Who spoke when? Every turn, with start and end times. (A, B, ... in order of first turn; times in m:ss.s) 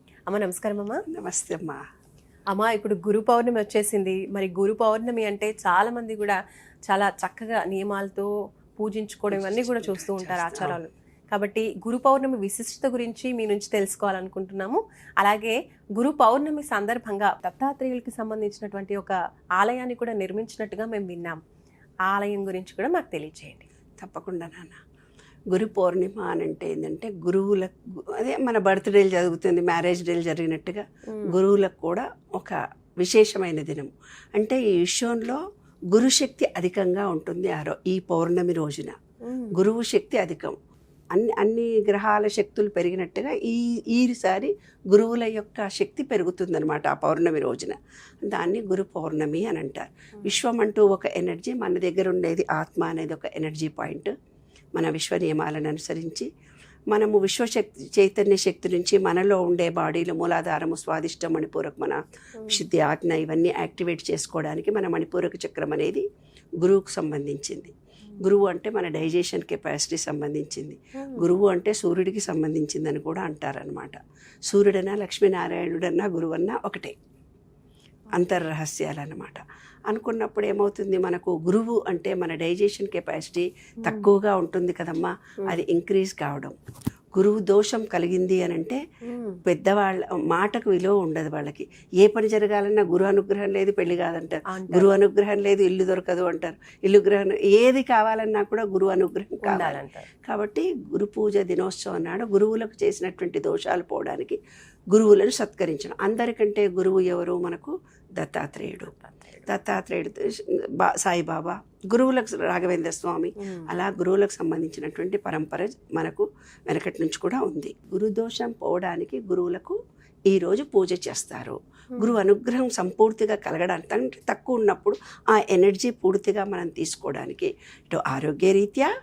0:00.3-0:01.0 A
0:01.1-0:01.8 B
0:02.5-0:21.4 A
0:09.3-0:10.8 B
0:22.1-0:23.7 A
0:24.0-0:24.8 B
0:25.5-0:35.4 B
0:35.9-0:39.0 B
0:39.2-0:39.6 A
0:39.5-0:40.6 B
0:41.1-0:54.1 B
0:54.8-0:56.3 B
0:56.9-1:06.0 B
1:06.6-1:17.0 B
1:11.0-1:11.3 A
1:18.1-1:26.6 B
1:18.1-1:18.4 A
1:23.8-1:24.1 A
1:27.1-1:28.8 B
1:29.0-1:29.4 A
1:29.4-1:44.4 B
1:34.5-1:35.0 A
1:39.4-1:40.0 A
1:44.9-1:48.9 B
1:48.8-1:49.6 A
1:49.4-1:59.8 B
1:53.4-1:53.8 A
2:00.3-2:08.9 B
2:01.9-2:02.2 A